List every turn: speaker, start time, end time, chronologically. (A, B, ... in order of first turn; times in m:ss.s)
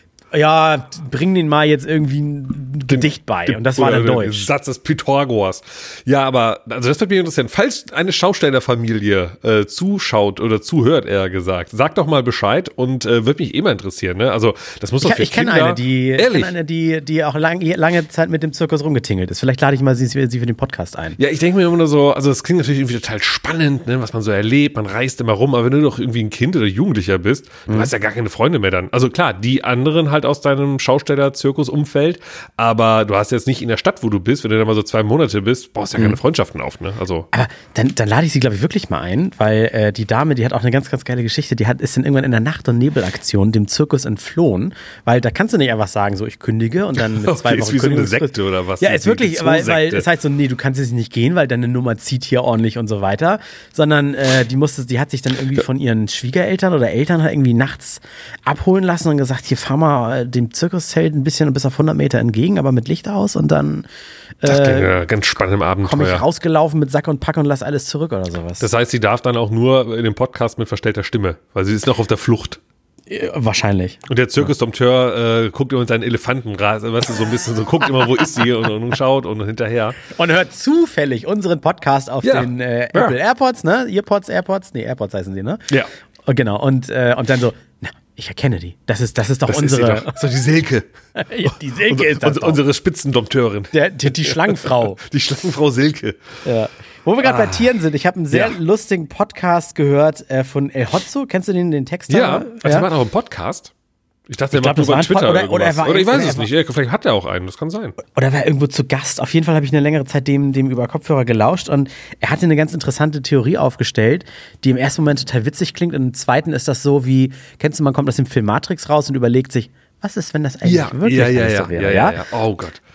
0:00.3-0:04.5 A
0:02.9-0:16.5 B
0:15.0-0:21.2 A
0:21.2-0:37.3 B
0:37.3-1:03.9 A
0:47.0-0:50.1 B
1:04.4-1:05.0 A
1:04.4-1:06.2 B
1:05.8-1:08.6 A
1:08.6-1:12.6 B
1:13.1-1:14.0 A
1:14.1-1:20.0 B
1:20.0-1:25.7 A
1:22.2-1:23.1 B
1:26.2-1:30.2 A
1:29.5-1:30.9 B
1:31.1-1:32.6 A
1:31.4-1:36.2 B
1:33.7-1:35.0 A
1:36.4-1:42.9 A
1:37.2-1:37.7 B
1:38.3-1:38.6 B
1:42.1-1:43.7 B
1:44.3-1:48.0 B
1:44.5-1:46.5 A
1:48.0-2:02.2 A
2:00.6-2:02.8 B